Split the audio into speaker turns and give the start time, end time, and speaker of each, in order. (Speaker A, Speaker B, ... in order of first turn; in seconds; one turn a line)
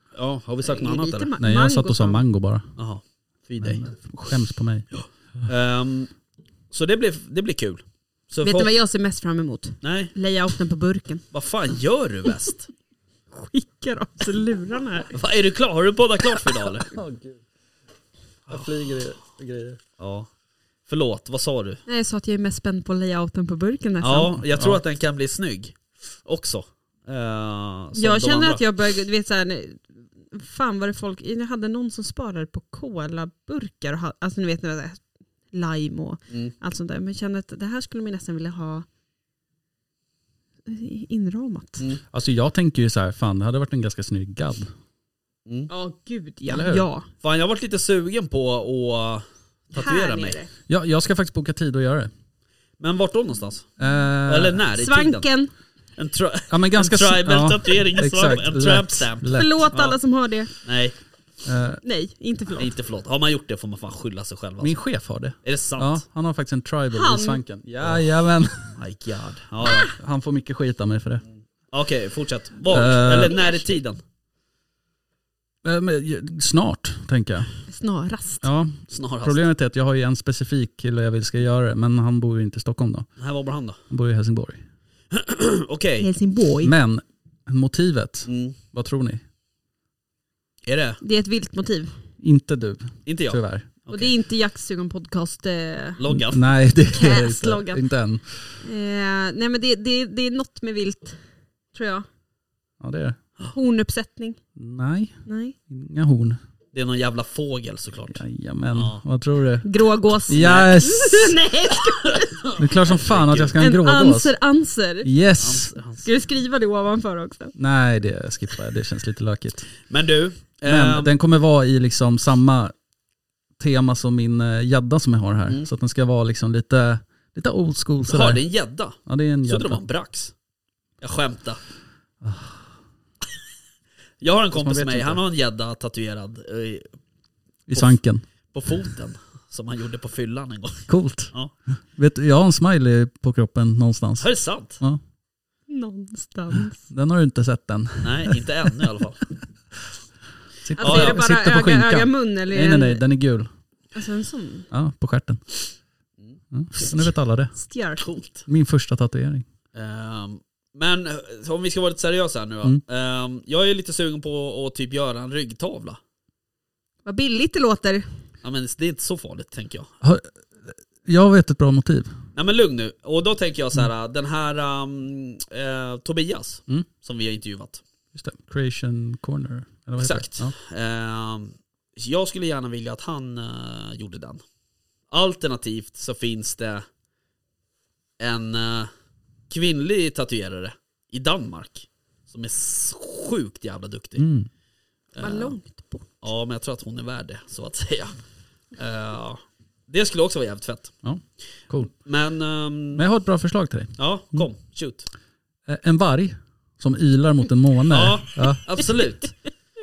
Speaker A: 0.1-1.3
Speaker B: 0.6-2.2
Speaker C: 1.4-2.7
Speaker A: 2.8-3.8
Speaker C: 3.6-4.9
Speaker A: 4.9-6.1
Speaker A: 6.7-8.7
Speaker B: 8.4-11.2
Speaker A: 9.8-10.1
Speaker A: 11.3-12.7
Speaker B: 13.3-15.1
Speaker A: 15.1-16.9
Speaker C: 16.9-17.4
Speaker C: 18.5-19.8
Speaker A: 20.0-20.3
Speaker A: 20.9-21.8
Speaker B: 21.9-24.4
Speaker A: 24.0-28.6
Speaker C: 24.4-24.8
Speaker B: 27.9-38.9
Speaker B: 40.6-41.9
Speaker C: 42.1-44.7
Speaker B: 45.7-47.1
Speaker C: 46.5-46.9
Speaker A: 47.2-50.4
Speaker B: 49.7-50.5
Speaker C: 50.7-52.1
Speaker A: 52.8-55.2
Speaker C: 53.8-54.6
Speaker B: 54.8-55.5
Speaker A: 56.0-60.0
Speaker C: 56.5-59.7
Speaker B: 59.3-60.5
Speaker A: 60.6-60.9
Speaker C: 61.4-61.8
Speaker B: 61.8-62.7
Speaker A: 62.6-64.8
Speaker C: 64.6-68.7
Speaker A: 65.4-66.0
Speaker B: 66.9-67.4
Speaker A: 68.6-69.9
Speaker C: 69.8-71.2
Speaker A: 71.7-74.0
Speaker C: 72.7-73.3
Speaker C: 75.6-77.5
Speaker B: 77.7-78.5
Speaker C: 78.4-83.1
Speaker A: 78.9-79.4
Speaker A: 83.2-83.8
Speaker C: 83.9-84.6
Speaker A: 85.1-86.0
Speaker B: 86.0-86.7
Speaker C: 86.6-89.2
Speaker A: 88.3-88.6
Speaker A: 90.7-91.0
Speaker B: 91.0-91.9
Speaker C: 92.2-93.7
Speaker A: 93.0-94.1
Speaker B: 93.9-96.0
Speaker A: 96.0-96.5
Speaker C: 96.1-98.5
Speaker B: 96.9-97.8
Speaker B: 98.6-101.2
Speaker B: 101.7-102.0
Speaker C: 102.8-103.2
Speaker B: 103.5-104.4
Speaker C: 104.5-106.4
Speaker B: 105.2-105.5
Speaker A: 106.7-109.0
Speaker C: 108.1-109.7
Speaker B: 109.6-112.5
Speaker C: 110.2-111.4
Speaker A: 110.3-110.8
Speaker A: 112.4-113.6
Speaker C: 112.6-114.3
Speaker B: 113.6-115.1
Speaker C: 115.0-115.7
Speaker A: 115.4-116.0
Speaker B: 116.0-117.5
Speaker C: 117.5-119.7
Speaker A: 119.9-121.1
Speaker C: 120.7-122.7
Speaker C: 123.6-128.4
Speaker A: 128.1-130.3
Speaker C: 129.1-129.8
Speaker A: 131.0-131.6
Speaker C: 132.2-132.6
Speaker A: 134.2-136.9
Speaker C: 134.5-135.2
Speaker C: 137.7-138.2
Speaker A: 137.7-137.9
Speaker A: 138.5-141.5
Speaker C: 140.9-141.3
Speaker C: 141.9-144.3
Speaker A: 144.2-144.8
Speaker B: 145.7-146.8
Speaker C: 146.5-148.8
Speaker A: 148.0-149.3
Speaker C: 150.6-153.5
Speaker B: 150.7-153.0
Speaker A: 150.8-151.2
Speaker B: 153.9-154.7
Speaker C: 154.7-155.5
Speaker C: 156.5-157.5
Speaker B: 157.5-158.0
Speaker A: 158.0-158.5
Speaker C: 158.5-159.4
Speaker A: 159.7-166.0
Speaker B: 167.0-168.1
Speaker A: 168.4-169.9
Speaker C: 170.0-172.1
Speaker A: 172.3-177.8
Speaker C: 178.1-180.5
Speaker A: 180.0-184.4
Speaker A: 185.1-186.8
Speaker A: 188.2-188.9
Speaker A: 189.5-194.2
Speaker C: 194.2-194.5
Speaker A: 195.1-195.6
Speaker B: 195.2-196.2
Speaker A: 196.2-198.2
Speaker A: 198.7-200.9
Speaker C: 201.0-201.9
Speaker A: 201.9-203.0
Speaker C: 202.9-204.5
Speaker A: 204.0-205.1
Speaker C: 205.7-208.6
Speaker A: 207.9-209.5